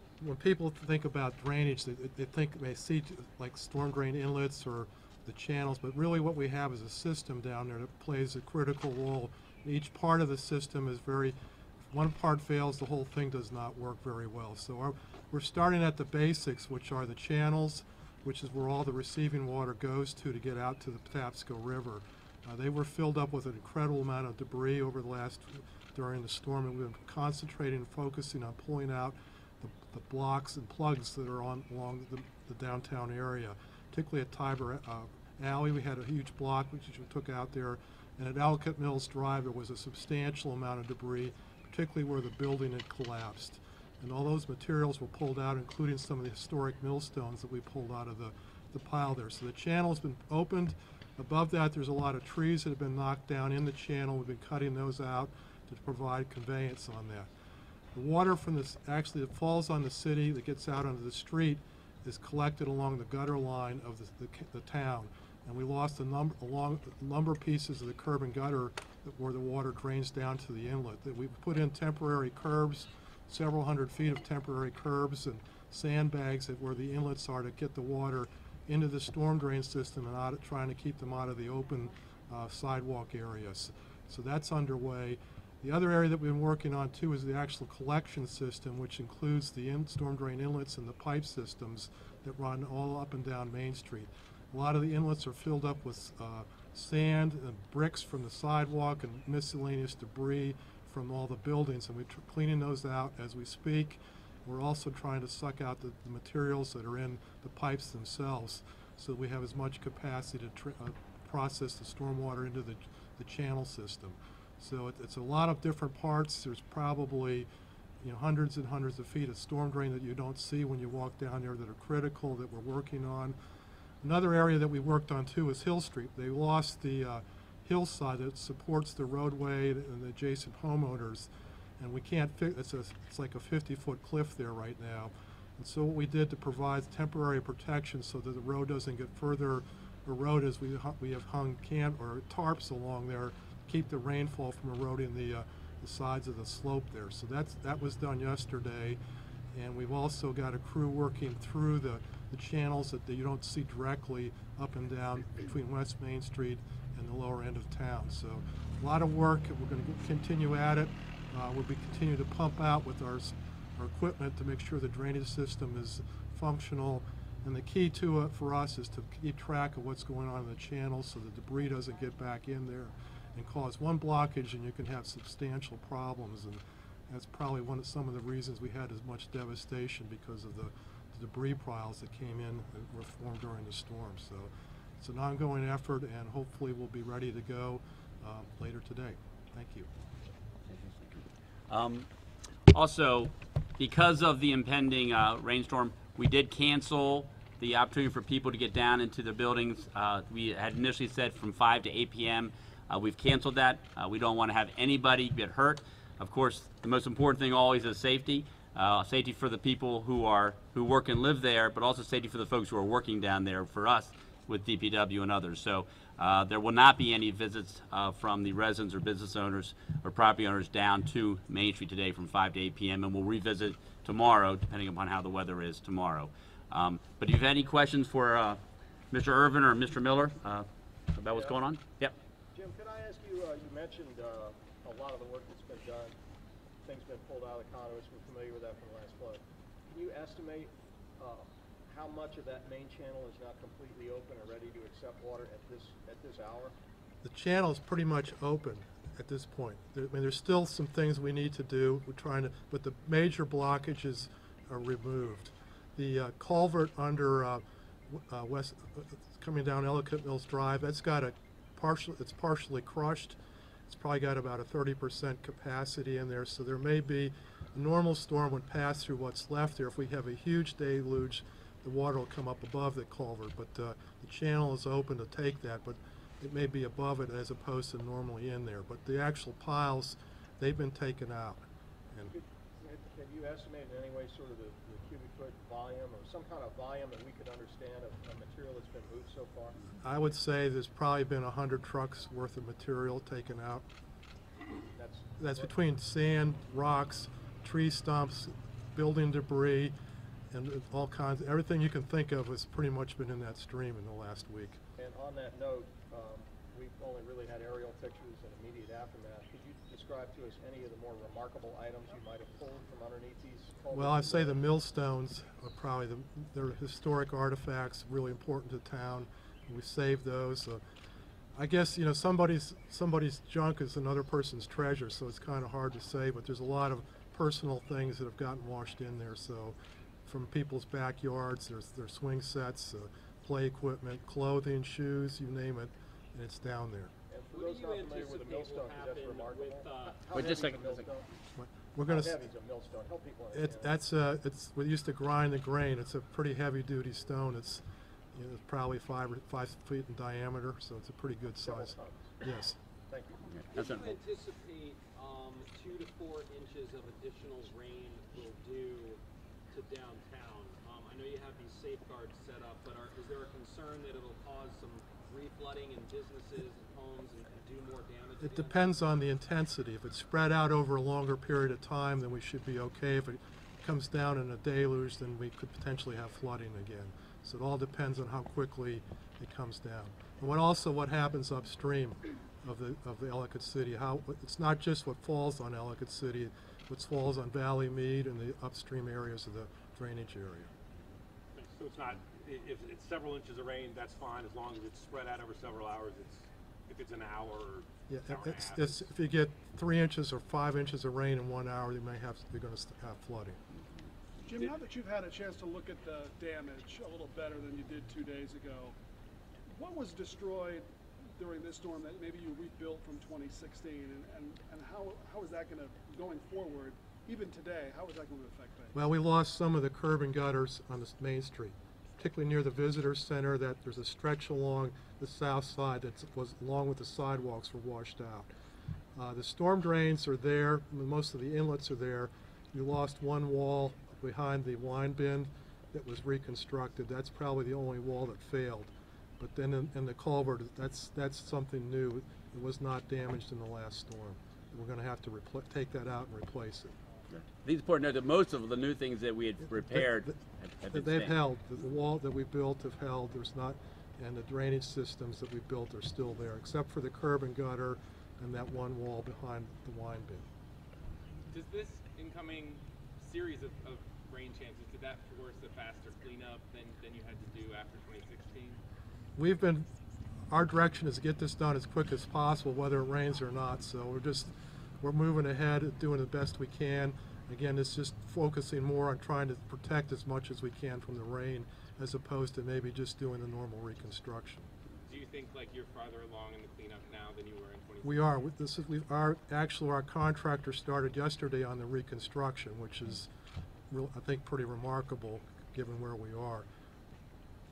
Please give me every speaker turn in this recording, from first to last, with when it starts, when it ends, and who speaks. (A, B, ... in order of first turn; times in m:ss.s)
0:00.2-0:11.4 A
0:11.9-0:57.3 A
0:57.9-1:57.5 A
1:58.0-2:03.4 A
2:04.0-2:29.0 A
2:29.5-3:09.9 A
3:10.7-3:12.1 B
3:12.7-3:52.1 B
3:51.3-3:51.6 C
3:52.5-3:56.2 C
3:56.8-4:06.7 C
4:07.2-4:23.4 A
4:23.9-4:42.3 A
4:42.3-4:49.9 C
4:50.0-4:53.9 A
4:55.0-4:55.7 C
4:55.4-4:59.9 A
5:00.5-5:04.8 A
5:05.0-5:14.6 C
5:13.9-5:20.8 A
5:21.5-5:37.1 A
5:37.3-5:41.3 C
5:37.5-5:40.8 D
5:40.3-5:41.1 B
5:41.6-5:42.4 A
5:42.0-5:43.9 C
5:43.5-5:52.8 A
5:51.6-5:52.4 C
5:53.1-5:53.5 C
5:53.5-5:54.2 B
5:53.7-5:59.2 D
5:59.7-6:09.1 D
6:08.4-6:30.7 A
6:31.6-6:39.0 E
6:38.1-6:43.6 A
6:44.4-6:49.0 F
6:49.7-6:59.1 F
6:58.9-7:08.5 A
7:09.2-7:27.0 A
7:27.3-7:31.4 B
7:29.9-7:30.4 A
7:30.9-7:40.4 A
7:41.5-7:48.8 G
7:49.4-7:49.9 A
7:50.5-8:04.7 A
8:05.1-8:08.3 G
8:08.0-8:13.3 A
8:13.9-8:16.6 A